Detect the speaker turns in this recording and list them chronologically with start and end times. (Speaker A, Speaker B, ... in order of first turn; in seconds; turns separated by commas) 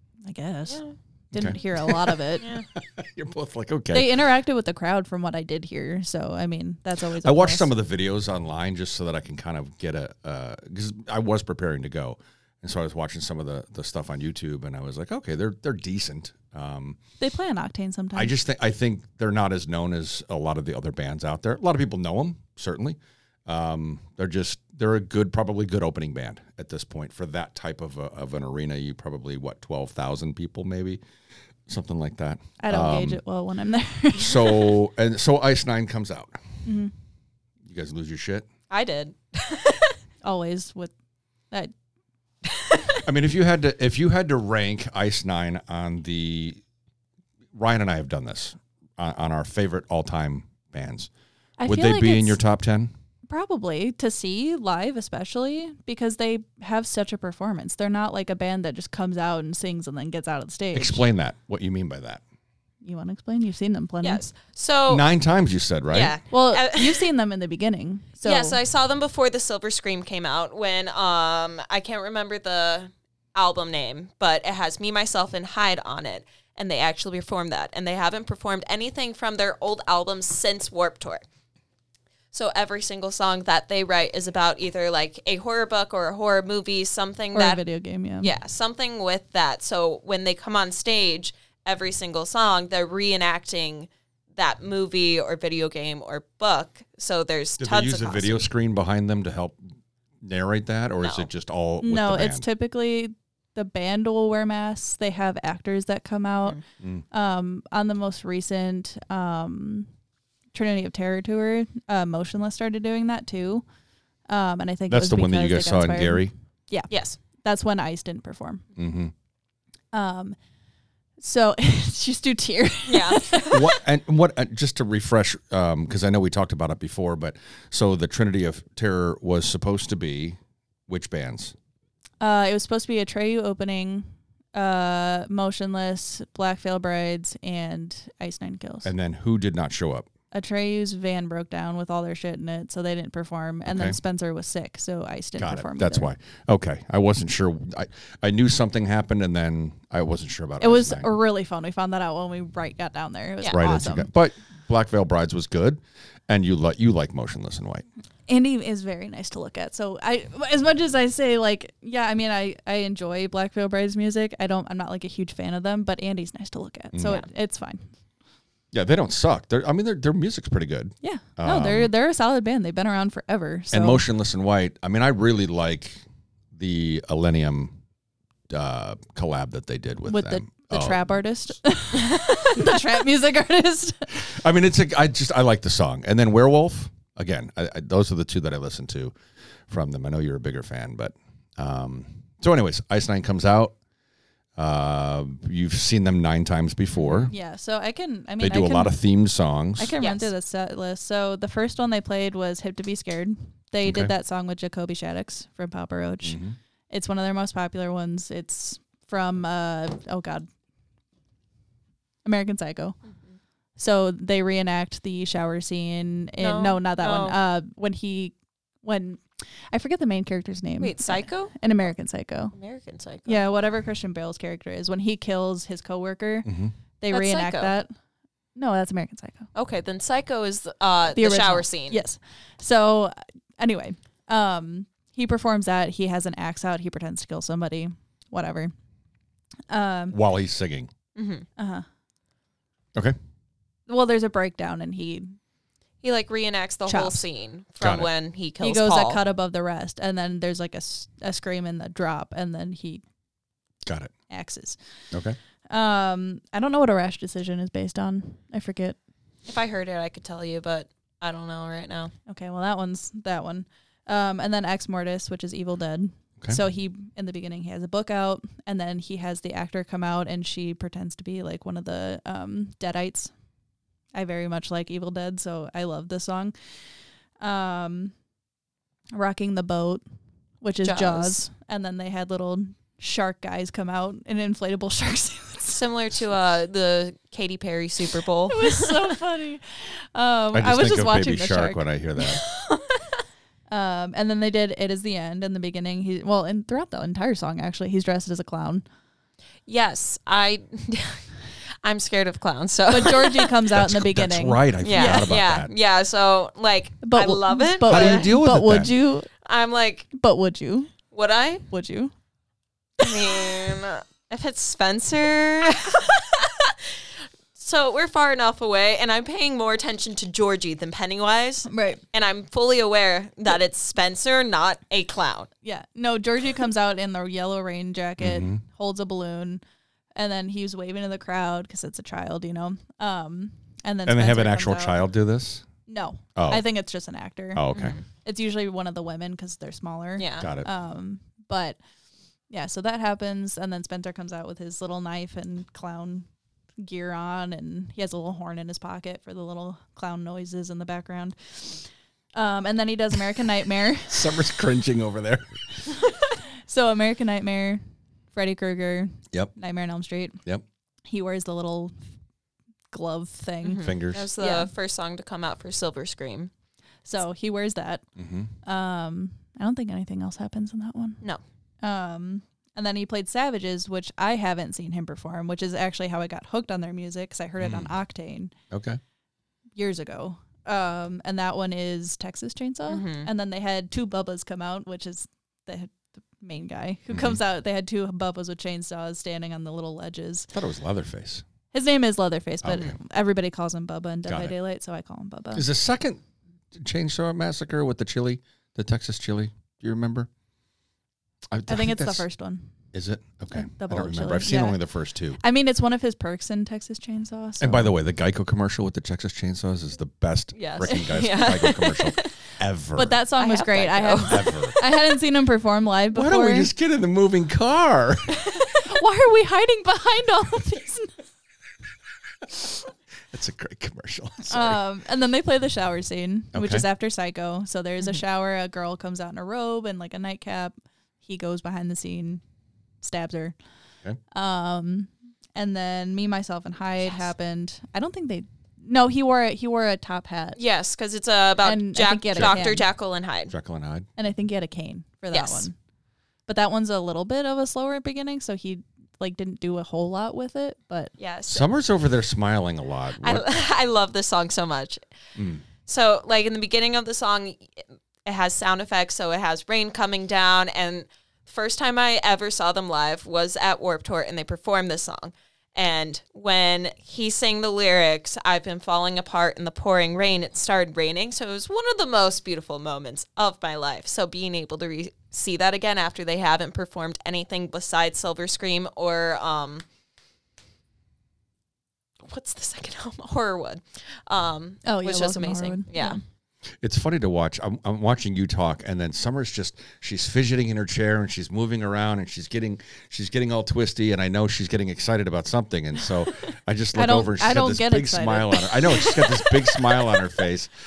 Speaker A: 0.3-2.5, Speaker B: 0.7-1.0, Speaker C: 1.3-2.2, Speaker B: 2.4-2.7, Speaker C: 2.7-4.2, Speaker A: 3.9-7.7, Speaker C: 7.2-17.0, Speaker A: 17.2-18.4, Speaker C: 18.1-31.0, Speaker C: 31.7-33.2, Speaker A: 32.6-34.8, Speaker C: 34.1-36.4, Speaker A: 36.6-36.9, Speaker C: 37.6-38.5, Speaker B: 38.7-40.0, Speaker A: 40.2-40.9, Speaker B: 42.5-43.0, Speaker C: 43.0-46.6, Speaker C: 47.5-51.1, Speaker A: 51.6-52.4, Speaker C: 51.7-52.9, Speaker A: 53.3-61.1, Speaker C: 60.7-62.2, Speaker A: 62.8-64.2, Speaker B: 64.0-65.0, Speaker C: 64.9-66.1, Speaker B: 65.9-67.1, Speaker A: 66.3-68.6, Speaker B: 68.2-81.2, Speaker B: 82.3-87.6, Speaker A: 87.3-88.3, Speaker B: 88.2-98.4, Speaker C: 97.6-99.6, Speaker C: 100.2-102.5, Speaker B: 101.0-101.3, Speaker A: 101.8-106.6, Speaker A: 107.1-109.9, Speaker A: 110.5-113.6, Speaker A: 114.3-118.6, Speaker C: 114.9-116.3, Speaker B: 116.9-117.2, Speaker C: 118.8-119.1, Speaker A: 119.9-120.4, Speaker A: 121.2-123.6, Speaker B: 122.9-123.6, Speaker C: 123.5-131.6, Speaker A: 132.2-138.9, Speaker C: 138.8-140.1, Speaker A: 140.3-146.1, Speaker C: 143.7-144.0, Speaker C: 145.4-151.1, Speaker A: 150.6-154.1, Speaker C: 153.5-157.8, Speaker A: 158.3-167.9, Speaker C: 166.9-167.2, Speaker C: 168.7-171.9, Speaker A: 171.0-174.0, Speaker C: 173.7-176.0, Speaker C: 176.5-177.8, Speaker C: 178.5-181.1, Speaker A: 180.1-184.3, Speaker C: 184.2-189.2, Speaker C: 189.7-193.8, Speaker C: 194.6-197.3, Speaker B: 197.0-197.3, Speaker A: 197.3-198.9, Speaker C: 198.4-199.9, Speaker A: 199.8-210.5, Speaker B: 200.0-200.3, Speaker C: 203.8-204.1, Speaker C: 206.2-206.6, Speaker A: 212.2-213.0, Speaker A: 213.8-222.5, Speaker B: 216.4-217.4, Speaker B: 220.8-221.5, Speaker B: 222.6-223.4, Speaker A: 223.3-227.9, Speaker C: 226.4-226.7, Speaker B: 227.1-227.7, Speaker A: 228.6-229.5, Speaker B: 229.6-232.0, Speaker A: 231.1-238.7, Speaker A: 239.7-240.2, Speaker C: 240.1-240.9, Speaker B: 241.2-241.5, Speaker A: 241.6-241.8, Speaker A: 243.9-245.4, Speaker B: 246.0-249.2, Speaker A: 246.9-247.2, Speaker C: 247.8-248.1, Speaker A: 248.6-253.0, Speaker C: 253.8-254.1, Speaker A: 254.3-254.8, Speaker C: 255.1-255.4, Speaker A: 255.7-259.0, Speaker B: 259.5-262.1, Speaker A: 262.3-273.3, Speaker A: 274.1-276.5, Speaker A: 277.4-278.1, Speaker A: 279.1-280.0, Speaker A: 280.6-285.8, Speaker B: 280.8-281.4, Speaker B: 285.7-289.1, Speaker A: 288.5-291.8, Speaker C: 290.5-292.4, Speaker B: 292.2-293.0, Speaker A: 293.7-298.9, Speaker B: 299.7-301.3, Speaker B: 301.8-303.6, Speaker A: 302.9-305.2, Speaker C: 303.7-305.7, Speaker B: 304.8-308.3, Speaker A: 307.0-309.3, Speaker C: 307.9-308.9, Speaker B: 309.4-310.1, Speaker A: 310.1-310.9, Speaker B: 311.1-311.6, Speaker A: 311.7-312.1, Speaker B: 313.0-317.0, Speaker B: 317.6-325.5, Speaker A: 321.7-322.0, Speaker A: 325.6-329.6, Speaker C: 328.2-328.6, Speaker A: 330.2-335.0, Speaker C: 334.1-335.6, Speaker A: 335.9-337.6, Speaker C: 336.4-336.6, Speaker C: 337.5-338.0, Speaker B: 337.7-338.0, Speaker A: 338.2-341.8, Speaker B: 340.2-340.5, Speaker C: 340.4-340.7, Speaker A: 342.5-346.3, Speaker A: 346.8-354.3, Speaker C: 354.1-355.6, Speaker A: 356.7-357.8, Speaker A: 358.3-360.4, Speaker A: 361.1-361.9, Speaker A: 362.9-363.9, Speaker B: 363.6-366.5, Speaker C: 363.8-364.3, Speaker A: 364.4-364.7, Speaker A: 367.1-368.0, Speaker C: 368.2-368.5, Speaker A: 368.6-371.2, Speaker A: 371.8-378.5, Speaker C: 377.6-377.9, Speaker C: 378.7-379.0, Speaker A: 379.8-390.5, Speaker B: 382.9-383.3, Speaker C: 387.1-387.4, Speaker C: 390.5-391.4, Speaker A: 391.7-395.7, Speaker C: 392.6-392.9, Speaker C: 394.3-394.5, Speaker C: 395.5-396.2, Speaker C: 396.7-400.3, Speaker C: 401.5-402.3, Speaker A: 401.7-402.7, Speaker C: 402.9-405.4, Speaker A: 403.5-404.8, Speaker A: 405.4-407.9, Speaker C: 407.6-413.2, Speaker B: 410.5-412.3, Speaker A: 410.9-411.5, Speaker A: 413.0-416.7, Speaker B: 413.4-414.7, Speaker C: 414.3-414.8, Speaker C: 416.1-418.5, Speaker A: 418.7-421.1, Speaker C: 422.5-422.7, Speaker C: 423.3-424.8, Speaker A: 424.5-432.4, Speaker C: 426.5-426.9, Speaker A: 433.0-433.6, Speaker A: 434.3-440.6, Speaker B: 440.6-443.5, Speaker A: 441.6-442.9, Speaker C: 442.4-442.6, Speaker C: 443.5-444.1, Speaker A: 444.2-445.7, Speaker B: 445.3-445.7, Speaker A: 446.5-451.1, Speaker B: 451.2-451.7, Speaker C: 451.5-453.5, Speaker B: 453.2-455.0, Speaker C: 455.4-455.6, Speaker B: 455.9-479.8, Speaker B: 482.2-486.2, Speaker A: 484.8-486.2, Speaker C: 486.8-500.7, Speaker A: 496.9-499.2